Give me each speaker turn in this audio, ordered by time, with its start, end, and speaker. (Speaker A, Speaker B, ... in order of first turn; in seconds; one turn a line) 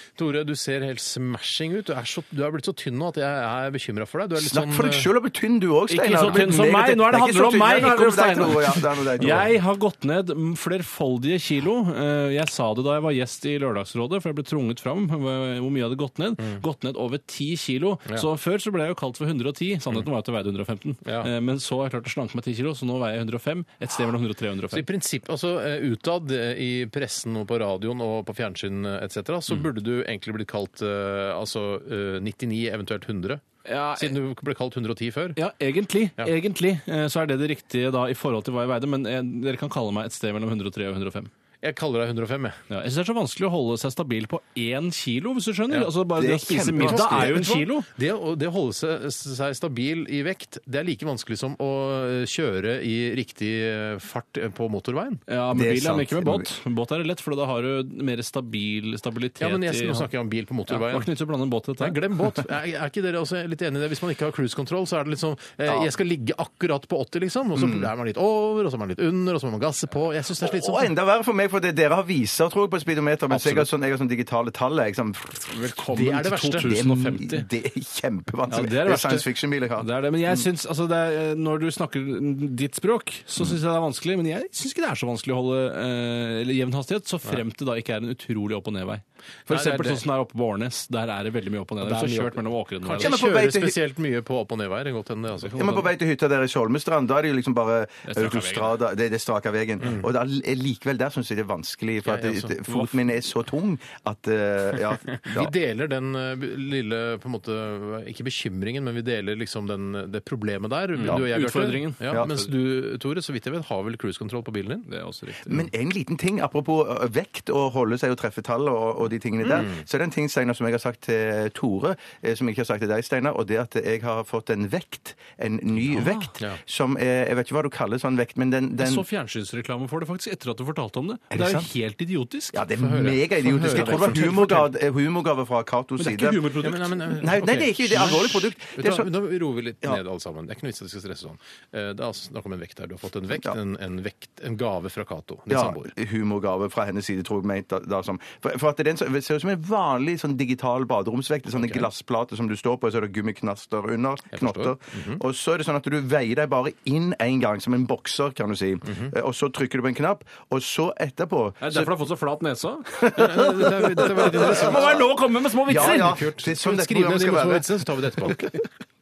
Speaker A: 0.1-5.1
Speaker B: 4.4-9.5
Speaker C: 5.9-24.8
Speaker A: 21.0-21.3
Speaker A: 24.7-35.4
Speaker C: 33.6-34.2
Speaker C: 35.4-41.3
Speaker A: 41.6-42.6
Speaker C: 42.7-47.9
Speaker B: 46.2-47.3
Speaker A: 46.8-55.2
Speaker C: 55.3-60.1
Speaker B: 55.5-56.5
Speaker A: 59.4-61.1
Speaker C: 60.7-62.4
Speaker A: 61.8-70.9
Speaker B: 67.5-67.9
Speaker B: 70.4-75.8
Speaker A: 73.3-73.7
Speaker C: 75.5-77.5
Speaker A: 75.9-76.7
Speaker B: 76.6-80.5
Speaker C: 78.5-93.2
Speaker A: 89.5-90.0
Speaker A: 91.8-95.7
Speaker B: 93.0-93.8
Speaker C: 95.5-95.9
Speaker B: 95.5-105.5
Speaker C: 98.1-98.8
Speaker A: 102.0-102.6
Speaker A: 105.2-114.9
Speaker C: 110.9-112.5
Speaker C: 114.9-115.6
Speaker B: 115.5-129.0
Speaker A: 119.5-119.8
Speaker C: 125.8-126.3
Speaker C: 128.8-132.6
Speaker B: 131.3-131.7
Speaker B: 132.5-136.5
Speaker A: 132.8-134.7
Speaker C: 133.7-134.3
Speaker C: 136.0-137.1
Speaker A: 136.6-145.9
Speaker B: 137.1-139.1
Speaker B: 145.5-161.9
Speaker A: 154.3-155.2
Speaker A: 158.9-159.1
Speaker C: 161.6-166.2
Speaker B: 163.0-165.1
Speaker A: 163.1-165.0
Speaker B: 165.6-168.6
Speaker A: 165.7-168.6